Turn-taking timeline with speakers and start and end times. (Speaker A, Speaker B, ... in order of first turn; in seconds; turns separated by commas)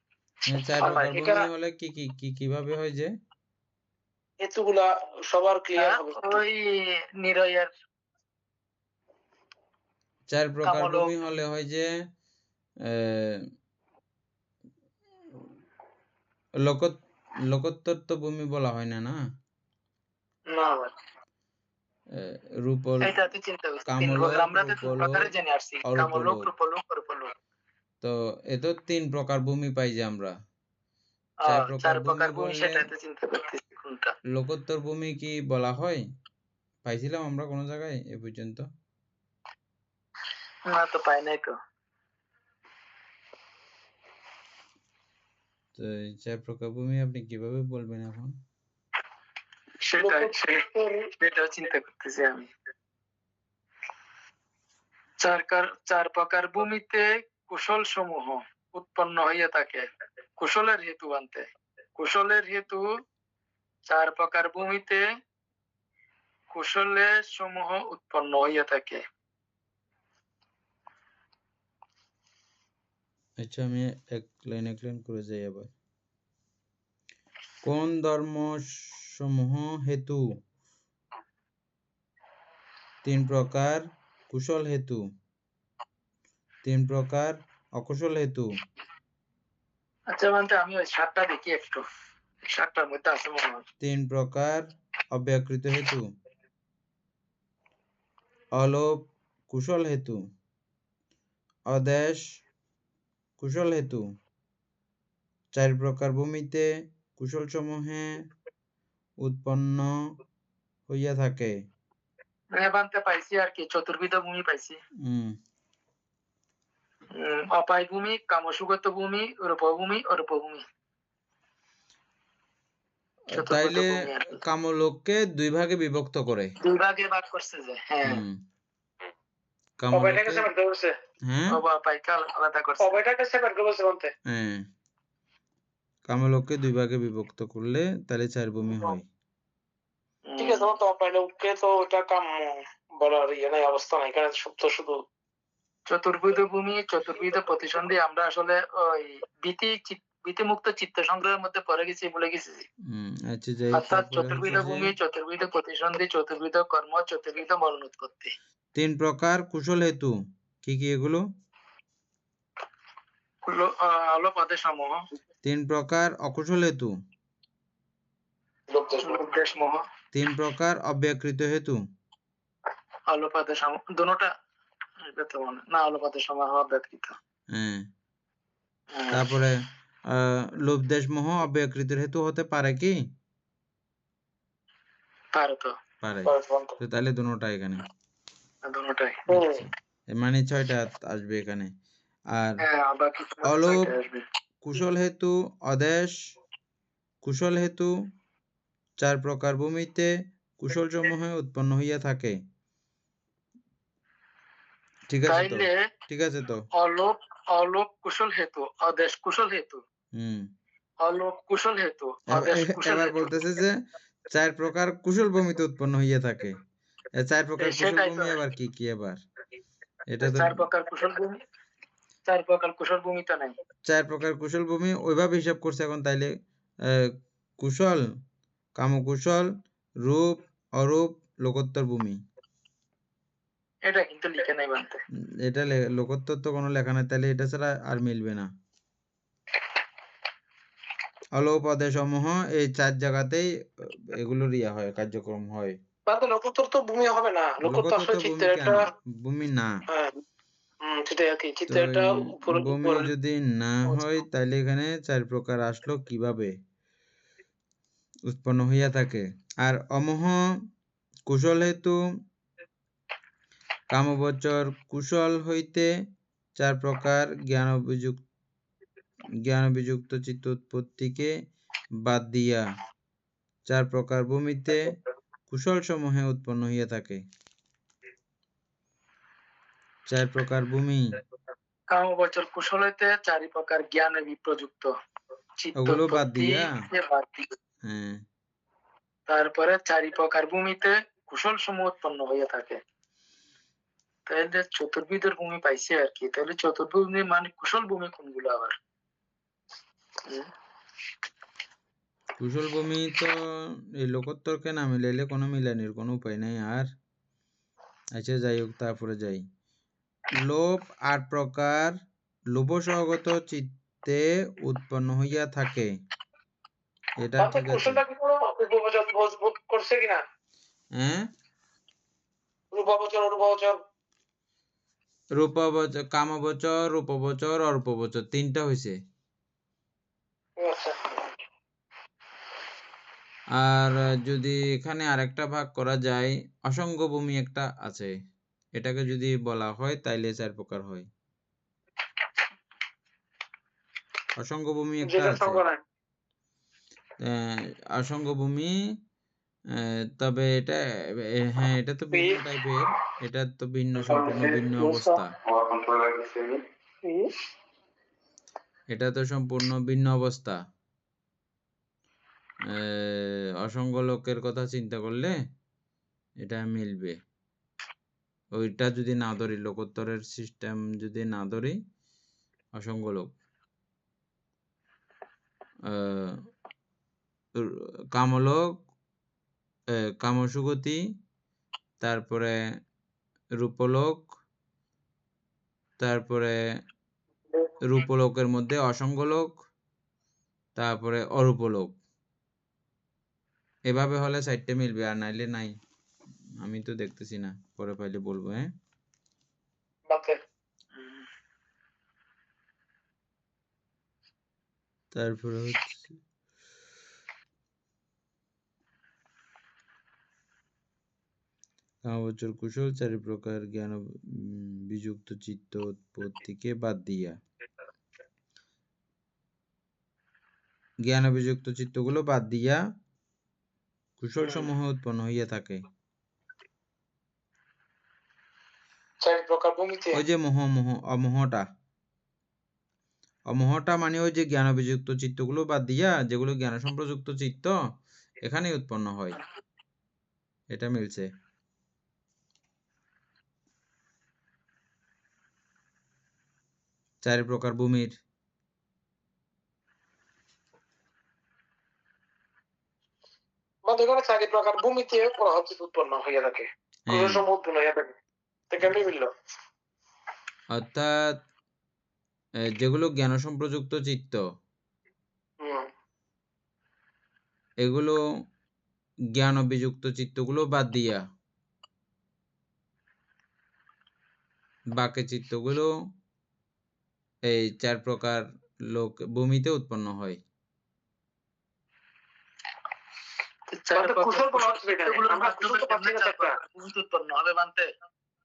Speaker A: 0.5-3.1, Speaker B: 0.8-1.5, Speaker C: 0.8-1.1, Speaker B: 4.4-6.4, Speaker C: 5.8-7.7, Speaker A: 10.3-11.9, Speaker C: 10.7-11.1, Speaker A: 12.9-13.4, Speaker A: 16.6-16.9, Speaker A: 17.5-19.2, Speaker B: 20.5-20.9, Speaker A: 22.2-23.1, Speaker C: 23.0-27.3, Speaker A: 23.9-25.3, Speaker A: 25.9-26.5, Speaker A: 28.0-30.4, Speaker A: 31.5-32.9, Speaker C: 31.5-34.1, Speaker A: 34.3-36.0, Speaker A: 36.9-38.7, Speaker C: 40.7-41.6, Speaker A: 45.8-48.4, Speaker C: 49.8-50.6, Speaker B: 50.0-51.1, Speaker C: 51.2-52.5, Speaker C: 55.2-59.9, Speaker C: 60.4-62.9, Speaker C: 63.9-65.0, Speaker C: 66.5-69.0, Speaker A: 73.4-75.7, Speaker A: 77.6-80.3, Speaker A: 83.0-85.0, Speaker A: 86.6-88.5, Speaker C: 90.1-91.8, Speaker C: 92.5-93.6, Speaker A: 93.8-96.1, Speaker A: 98.6-99.0, Speaker A: 99.5-100.2, Speaker A: 101.7-102.2, Speaker A: 103.4-104.1, Speaker A: 105.5-108.2, Speaker A: 109.2-110.1, Speaker A: 110.9-111.6, Speaker C: 112.5-114.8, Speaker A: 115.0-115.4, Speaker C: 117.2-120.7, Speaker A: 123.3-126.5, Speaker C: 123.3-124.4, Speaker C: 126.6-128.2, Speaker A: 128.1-128.4, Speaker A: 129.8-130.5, Speaker B: 129.9-131.0, Speaker A: 131.3-131.6, Speaker C: 131.5-133.0, Speaker B: 132.8-134.1, Speaker A: 134.3-134.7, Speaker A: 136.1-139.1, Speaker C: 140.3-140.7, Speaker B: 140.4-145.0, Speaker C: 145.9-152.7, Speaker A: 152.9-154.9, Speaker C: 153.7-158.3, Speaker A: 158.8-161.2, Speaker C: 163.5-165.1, Speaker A: 165.4-167.0, Speaker B: 168.7-169.3, Speaker C: 169.0-169.8, Speaker A: 170.1-171.8, Speaker C: 173.1-174.3, Speaker C: 175.1-177.2, Speaker A: 177.5-177.9, Speaker C: 178.9-179.2, Speaker A: 179.1-179.6, Speaker A: 180.1-183.0, Speaker C: 185.3-185.8, Speaker A: 186.0-187.8, Speaker B: 186.3-186.8, Speaker C: 188.7-189.2, Speaker A: 189.3-191.7, Speaker B: 189.3-189.6, Speaker A: 192.3-192.6, Speaker C: 192.6-194.2, Speaker A: 193.4-193.9, Speaker A: 194.6-196.2, Speaker A: 197.2-197.9, Speaker A: 199.0-202.4, Speaker A: 205.1-206.7, Speaker C: 205.3-205.8, Speaker C: 206.7-209.8, Speaker A: 210.2-210.5, Speaker C: 211.0-213.3, Speaker A: 212.3-213.8, Speaker A: 214.3-216.6, Speaker A: 217.2-219.2, Speaker C: 217.6-218.3, Speaker A: 220.1-220.7, Speaker C: 220.2-221.4, Speaker C: 222.3-223.6, Speaker A: 223.9-226.3, Speaker A: 226.9-228.1, Speaker A: 228.8-229.5, Speaker A: 230.1-232.2, Speaker C: 233.9-235.0, Speaker A: 235.5-238.5, Speaker A: 241.4-243.5, Speaker A: 244.1-245.8, Speaker B: 246.1-248.9, Speaker A: 247.6-249.8, Speaker B: 249.9-250.2, Speaker B: 250.8-253.1, Speaker A: 251.7-256.6, Speaker A: 258.3-260.4, Speaker A: 261.3-262.0, Speaker A: 263.9-265.9, Speaker A: 266.6-268.2, Speaker A: 269.4-271.3, Speaker A: 272.1-272.6, Speaker A: 273.7-275.0, Speaker A: 275.5-277.2, Speaker A: 280.1-281.1, Speaker C: 281.9-284.9, Speaker C: 285.6-287.5, Speaker A: 285.8-286.8, Speaker A: 287.8-288.2, Speaker C: 289.3-292.8, Speaker C: 294.3-298.8, Speaker C: 300.2-300.5, Speaker A: 302.4-306.9, Speaker A: 308.2-309.4, Speaker A: 310.4-312.0, Speaker A: 312.5-315.9, Speaker A: 317.2-318.0, Speaker B: 317.4-320.2, Speaker A: 321.0-321.3, Speaker B: 322.7-323.8, Speaker A: 325.4-329.0, Speaker B: 330.6-331.0, Speaker A: 333.6-338.1, Speaker A: 338.8-341.1, Speaker A: 344.4-345.6, Speaker B: 345.1-345.8, Speaker A: 347.2-348.8, Speaker A: 350.2-350.8, Speaker A: 351.4-355.4, Speaker B: 352.1-352.4, Speaker B: 354.2-355.1, Speaker A: 358.9-360.6, Speaker A: 362.7-365.4, Speaker A: 366.4-367.2, Speaker A: 368.6-371.8, Speaker A: 372.8-373.3, Speaker A: 375.9-376.4, Speaker A: 377.6-378.8, Speaker A: 380.2-381.0, Speaker A: 382.0-382.6, Speaker A: 383.6-384.3, Speaker A: 386.0-386.6, Speaker A: 387.8-389.5, Speaker A: 390.8-391.9, Speaker A: 393.9-395.8, Speaker A: 396.6-398.7, Speaker B: 400.1-400.4, Speaker C: 400.9-401.3, Speaker A: 405.1-406.0, Speaker A: 412.1-417.4, Speaker A: 421.1-422.8, Speaker A: 424.2-425.9, Speaker B: 429.2-430.2, Speaker A: 430.1-431.6, Speaker A: 433.5-437.8, Speaker A: 438.4-439.4, Speaker A: 440.7-441.3, Speaker A: 447.2-448.1, Speaker B: 453.9-458.1, Speaker A: 457.1-457.4, Speaker B: 458.7-459.3, Speaker A: 460.8-461.2, Speaker A: 462.8-464.4, Speaker B: 465.6-465.9, Speaker A: 467.8-468.2, Speaker A: 469.4-471.2, Speaker A: 475.0-475.9, Speaker A: 477.5-480.4, Speaker C: 483.7-487.9, Speaker B: 483.9-486.6